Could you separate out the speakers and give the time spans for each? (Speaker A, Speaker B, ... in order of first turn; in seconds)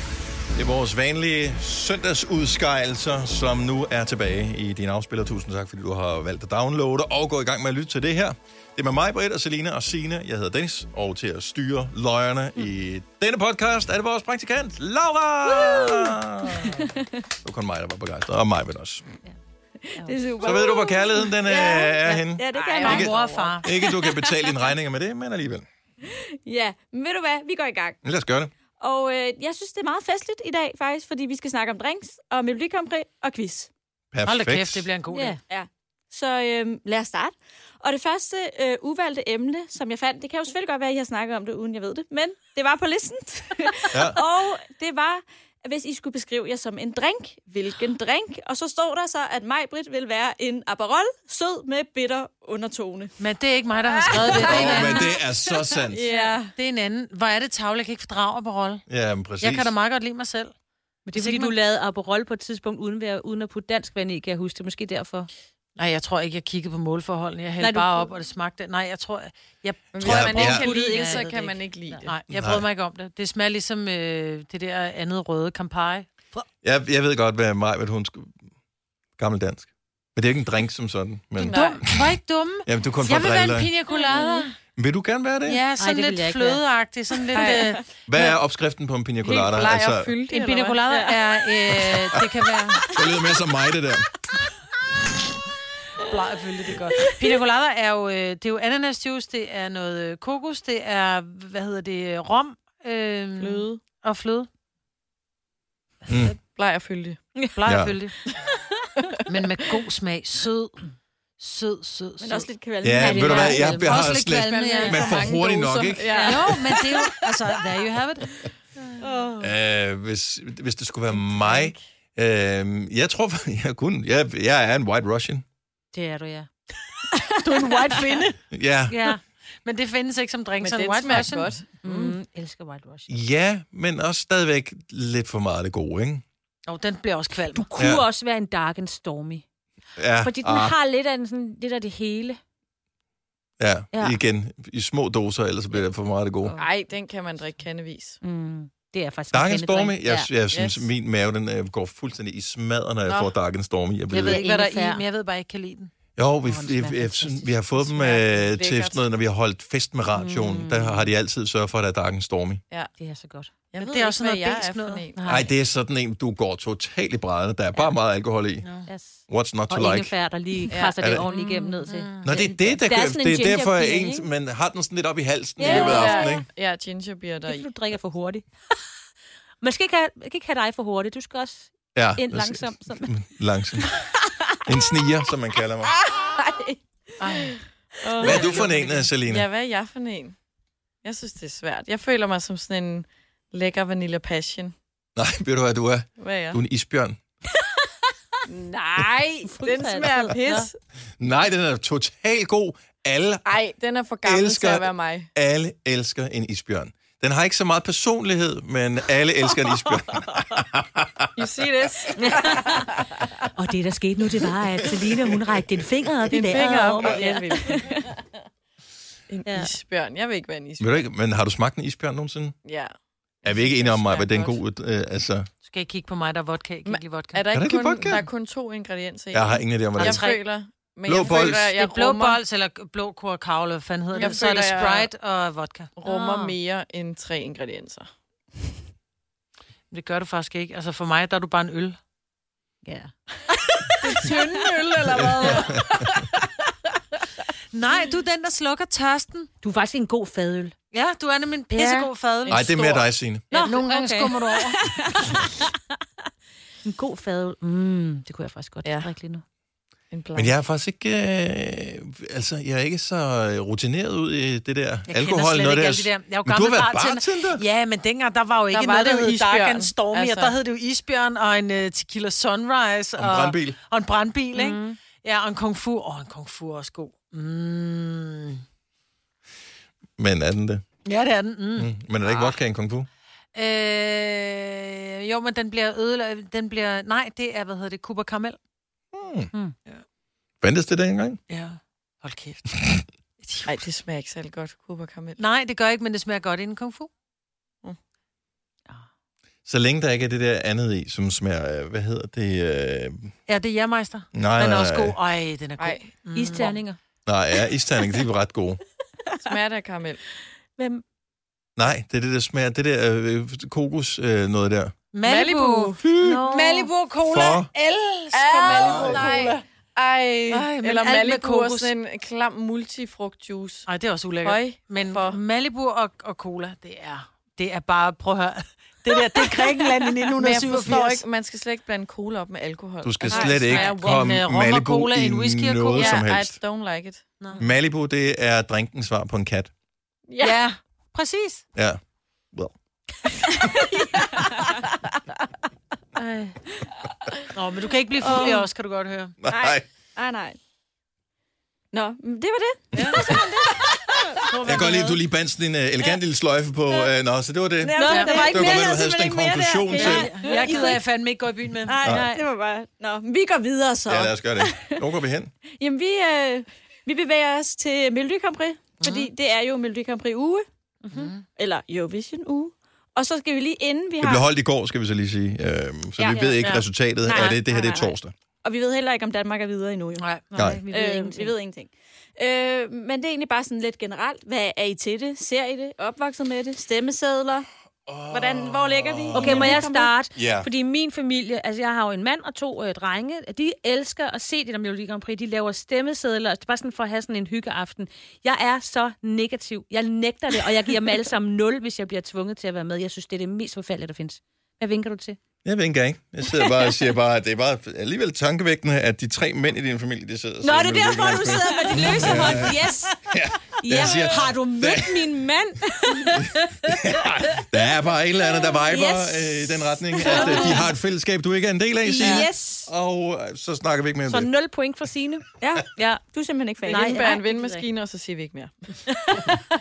Speaker A: 0.5-16.9, 17.4-19.0, 20.4-25.6, 28.0-28.5, 34.1-34.9, 43.9-44.2, 54.1-56.1, 58.9-59.7, 70.0-70.7, 72.3-72.6, 76.6-78.4, 79.2-83.7, 84.8-85.6, 88.0-90.1, 92.9-94.1, 106.1-106.4, 107.7-108.0, 112.8-116.5, 119.4-125.5, 128.5-129.2, 133.1-136.2, 137.8-138.1, 140.0-140.7, 143.6-146.6, 149.3-154.4, 156.2-162.6, 165.3-168.7, 169.3-170.1, 171.0-171.3, 172.2-176.5, 181.9-184.0, 184.6-186.0, 188.2-189.5, 195.2-197.2, 201.2-203.5, 204.2-211.3, 214.8-215.3, 220.8-222.6, 223.4-225.5, 227.5-228.3, 229.3-230.2, 231.1-231.7, 245.2-246.0, 252.5-253.5, 260.4-267.6, 273.2-273.8, 280.2-280.9, 281.8-283.1, 289.1-289.5, 290.6-291.4, 299.7-303.3, 304.3-305.2, 307.2-308.8, 311.8-314.9, 316.0-316.4, 317.3-317.7, 318.7-319.3, 333.0-336.6, 337.6-339.7, 341.8-342.0, 349.4-349.9, 352.9-360.3, 362.0-362.3, 364.1-365.5, 374.2-378.3, 380.6-380.8, 388.1-390.7, 405.6-415.3, 416.4-424.5
Speaker B: 15.6-16.1, 16.6-17.1, 19.8-23.1, 23.8-24.6, 26.0-28.0, 28.8-33.7, 35.5-53.2, 54.0-55.2, 55.7-56.5, 112.2-113.7, 186.0-186.8, 254.8-255.1, 343.6-344.8, 348.2-348.6, 349.4-350.6, 351.9-354.4, 357.8-361.0, 361.8-365.0, 365.7-370.7, 371.6-374.4, 376.2-376.5, 377.2-387.7, 388.3-390.1, 411.6-412.6, 420.2-420.8, 425.6-427.2
Speaker C: 20.0-20.3, 35.1-35.4, 61.0-65.3, 67.6-68.1, 70.1-72.0, 84.1-84.5, 85.8-86.6, 108.5-108.8, 113.0-114.2, 114.8-115.1, 125.9-126.5, 128.9-129.2, 131.8-133.2, 137.5-139.5, 140.2-142.4, 148.2-150.3, 154.1-155.0, 156.5-157.5, 160.2-161.1, 163.0-163.5, 165.2-165.5, 168.9-174.3, 175.7-176.4, 177.5-178.4, 179.6-183.1, 199.4-200.7, 212.2-213.0, 213.6-217.5, 219.4-219.7, 236.1-236.6, 242.8-243.1, 249.6-250.8, 251.7-252.1, 253.5-254.4, 256.9-259.4, 274.5-275.0, 306.3-307.0, 310.8-311.0, 316.2-316.9, 346.2-346.6, 358.0-358.9, 371.0-371.3, 376.4-376.8, 377.3-378.0, 380.5-381.6, 389.3-405.4, 406.4-407.0, 410.6-417.7, 418.9-419.3, 420.2-420.9, 422.0-422.9, 424.3-426.2, 426.9-427.9, 429.2-429.6
Speaker D: 22.5-23.7, 69.9-72.1, 81.4-81.8, 87.3-88.3, 89.2-91.1, 103.4-103.8, 106.5-107.2, 114.2-117.1, 119.0-119.4, 121.4-121.8, 130.6-132.2, 146.6-148.2, 150.5-150.9, 157.8-159.0, 163.7-165.5, 170.7-170.9, 175.6-177.7, 187.2-190.4, 191.0-194.8, 196.2-196.6, 198.5-200.8, 203.5-205.3, 211.4-213.1, 216.3-217.9, 219.3-221.1, 222.6-224.2, 226.8-232.4, 234.2-235.1, 236.0-238.1, 244.0-246.5, 252.4-253.8, 258.8-259.1, 260.1-260.6, 268.7-270.6, 293.6-295.4, 305.8-306.1, 309.4-310.2, 315.2-316.0, 318.3-323.9, 324.4-325.4, 330.4-334.2, 335.9-337.2, 340.3-340.6, 422.2-422.4, 426.9-429.4
Speaker E: 22.8-23.7, 34.2-35.4, 53.2-55.1, 56.5-58.9, 59.4-60.5, 61.1-61.5, 65.8-71.3, 72.0-76.5, 81.5-84.5, 85.5-87.8, 90.3-92.9, 96.0-104.5, 107.5-108.2, 109.3-110.8, 111.4-112.5, 113.7-115.1, 116.2-118.4, 127.4-128.4, 129.7-131.5, 136.7-137.7, 154.1-155.9, 163.8-165.1, 168.6-168.9, 171.4-172.4, 175.7-176.0, 188.3-188.8, 224.0-224.5, 225.6-227.4, 230.0-230.4, 231.4-235.9, 239.9-242.0, 247.7-249.5, 250.9-252.7, 253.5-254.9, 265.1-278.6, 281.1-281.9, 283.5-288.6, 291.5-292.6, 293.4-293.8, 295.4-297.1, 303.5-306.8, 315.1-319.6, 320.5-321.9, 323.9-331.2, 333.3-336.2, 340.4-341.6, 347.5-349.4, 352.9-353.4, 354.4-355.2, 358.0-358.5, 359.9-362.4, 369.0-369.3, 371.1-371.4, 380.2-380.4